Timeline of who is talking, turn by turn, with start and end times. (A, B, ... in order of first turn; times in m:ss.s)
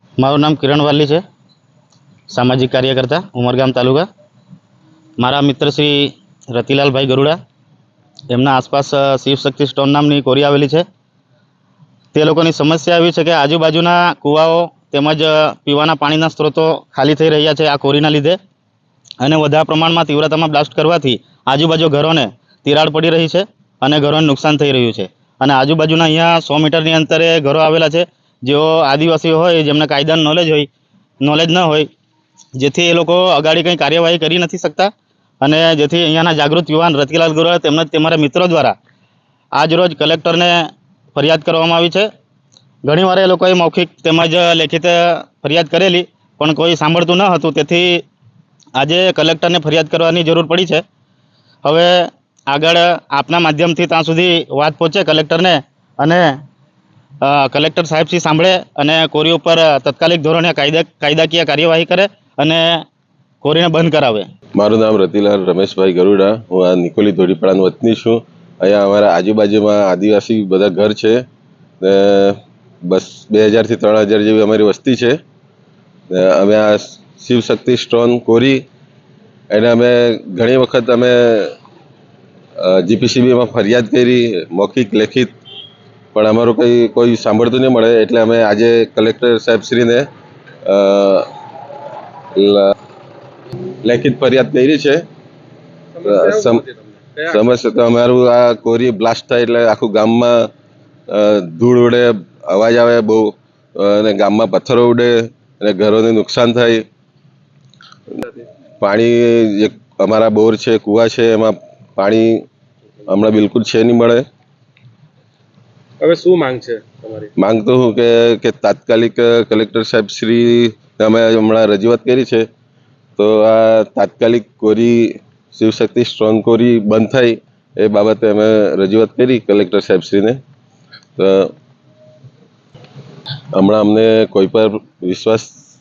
0:00.2-0:01.2 A
0:02.3-0:04.1 A
0:05.2-0:07.4 A
0:08.3-0:10.8 A
0:12.1-0:18.4 A
0:19.2-0:30.7 A
0:31.2-0:31.9 A
0:32.6-0:38.8 A
0:39.5-0:42.1 A
0:42.8-0:48.0 A
0:48.8-0:50.8 A
0:51.6-0:56.3 A
0:57.2-1:02.8 A
1:03.4-1:04.3 A
1:04.6-1:11.2 B
1:11.8-1:15.2 B
1:16.1-1:18.6 B
1:19.5-1:21.6 B
1:22.6-1:25.4 B
1:26.1-1:30.1 B
1:30.7-1:31.3 B
1:32.4-1:32.7 B
1:33.8-1:35.0 B
1:36.0-1:37.4 C
1:36.0-1:36.6 B
1:37.3-1:40.5 B
1:41.1-1:46.8 B
1:48.8-1:52.5 B
1:53.1-1:54.2 B
1:56.0-1:57.3 C
1:57.4-2:02.4 B
2:03.2-2:10.4 B
2:11.2-2:11.5 B
2:13.6-2:15.5 B